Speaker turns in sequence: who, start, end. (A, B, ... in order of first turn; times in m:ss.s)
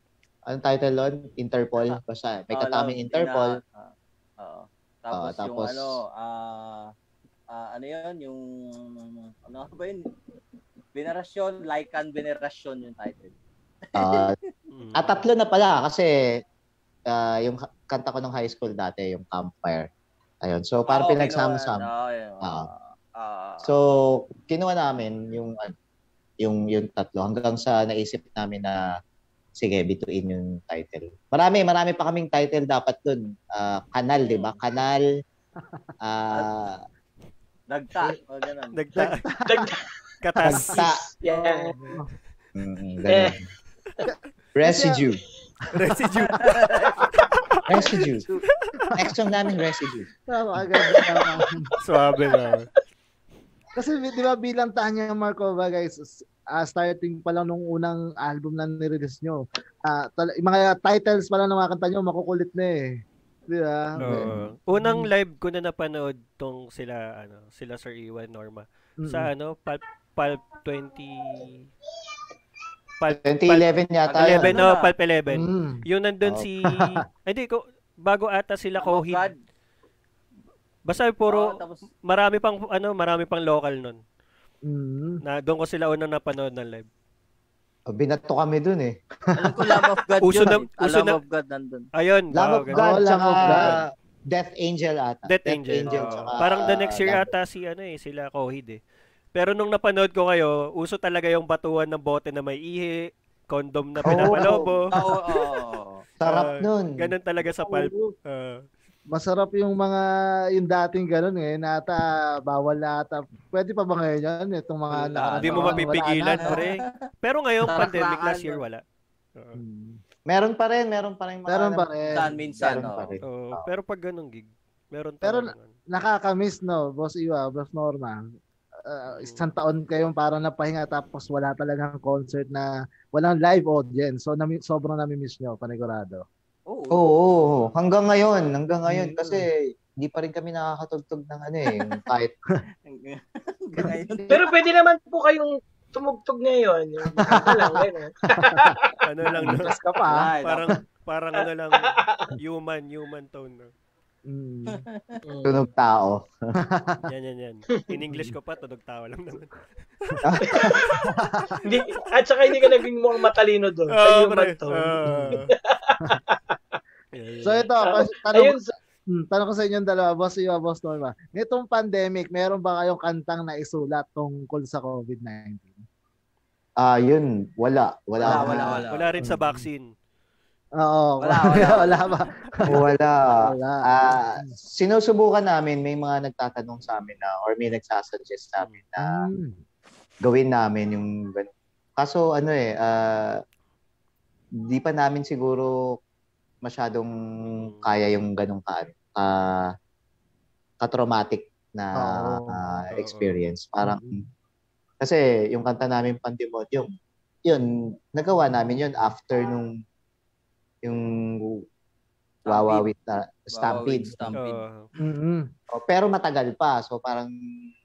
0:00.5-0:03.6 A
0:02.5-0:06.9 B
0:05.1-0:06.0 A
0:07.5-0:10.1 B
0:10.9-0:14.5 B
0:13.9-0:14.3 A
0:14.7-0:15.2 C
0:15.0-0:16.1 A
0:17.1-0:19.9 A
0:20.4-0:21.9 A
0:20.9-0:23.7 B
0:22.4-0:22.7 A
0:23.6-0:25.7 A
0:26.4-0:28.8 A
0:29.6-0:35.0 A
0:36.0-0:36.8 A
0:37.7-0:38.8 B
0:38.7-0:39.3 C
0:39.0-0:39.7 D
0:39.4-0:39.8 E
0:40.2-0:40.8 C
0:40.4-0:41.0 A
0:40.7-0:41.7 E
0:41.3-0:42.0 D
0:42.5-0:43.4 A
0:43.1-0:43.4 E
0:44.0-0:45.0 D
0:44.5-0:45.2 A
0:45.7-0:46.6 C
0:46.4-0:47.0 B
0:47.2-0:47.6 C
0:47.7-0:48.3 A
0:47.9-0:48.4 B
0:49.0-0:50.1 A
0:50.3-0:51.7 D
0:50.8-0:52.5 E
0:51.8-0:52.7 C
0:53.8-1:05.1 D
1:04.0-1:11.6 C
1:04.0-1:04.4 A
1:09.0-1:09.3 D
1:13.0-1:19.3 C
1:13.0-1:14.6 A
1:14.1-1:14.9 B
1:15.3-1:15.8 D
1:18.8-1:19.4 B
1:20.8-1:24.0 C
1:21.3-1:21.9 B
1:24.7-1:25.2 D
1:25.2-1:26.9 C
1:27.9-1:29.7 A
1:29.4-1:31.9 B
1:30.2-1:31.2 C
1:31.9-1:32.8 C
1:32.3-1:37.3 A
1:32.7-1:33.7 D
1:33.4-1:33.7 C
1:35.2-1:38.8 C
1:39.3-1:44.9 C
1:44.0-1:44.8 A
1:44.9-1:46.0 B
1:46.2-1:47.0 A
1:46.2-1:48.6 C
1:47.4-1:48.1 D
1:49.1-1:56.6 D
1:54.9-1:56.9 B
1:55.4-1:58.8 C
1:57.6-1:58.6 B
1:59.5-2:00.0 D
2:00.3-2:03.7 A
2:01.5-2:02.2 D
2:02.1-2:03.2 B
2:03.2-2:05.7 C
2:05.2-2:08.3 D
2:08.8-2:16.2 D
2:09.2-2:09.5 C
2:16.7-2:17.1 B
2:16.9-2:22.3 A
2:18.9-2:19.4 D
2:22.8-2:24.4 B
2:24.3-2:28.9 E
2:27.2-2:27.7 D
2:28.3-2:28.7 D
2:29.0-2:29.7 C
2:29.3-2:30.7 D
2:30.0-2:30.6 B
2:30.4-2:33.7 C
2:31.8-2:32.2 E
2:34.3-2:34.8 D
2:34.7-2:35.2 B
2:35.2-2:35.6 E
2:35.4-2:36.3 A
2:36.7-2:37.0 D
2:37.1-2:39.5 C
2:38.1-2:38.3 D
2:40.2-2:40.8 A
2:40.4-2:41.0 E
2:41.2-2:41.6 D
2:41.6-2:46.8 E
2:43.9-2:45.5 C
2:45.0-2:45.4 D
2:47.1-2:47.7 C
2:47.4-2:48.6 D
2:47.8-2:48.7 E
2:49.1-2:55.8 D
2:56.8-2:58.8 A
2:58.2-2:59.6 D
2:58.2-2:59.1 B
2:58.9-2:59.9 C
3:00.8-3:02.8 D
3:01.2-3:02.1 B
3:02.7-3:09.2 A
3:03.4-3:04.6 D
3:09.0-3:09.6 D
3:10.2-3:13.4 A
3:14.7-3:16.0 A
3:16.6-3:19.7 A
3:17.4-3:17.9 C
3:20.8-3:24.2 A
3:22.0-3:22.6 D
3:22.9-3:23.4 C
3:23.8-3:24.2 D
3:25.0-3:26.9 A
3:27.4-3:29.7 A
3:30.8-3:31.6 A
3:32.4-3:32.9 B
3:32.4-3:34.2 A
3:33.5-3:34.6 B
3:34.4-3:34.9 C
3:35.0-3:35.5 D
3:35.7-3:37.3 A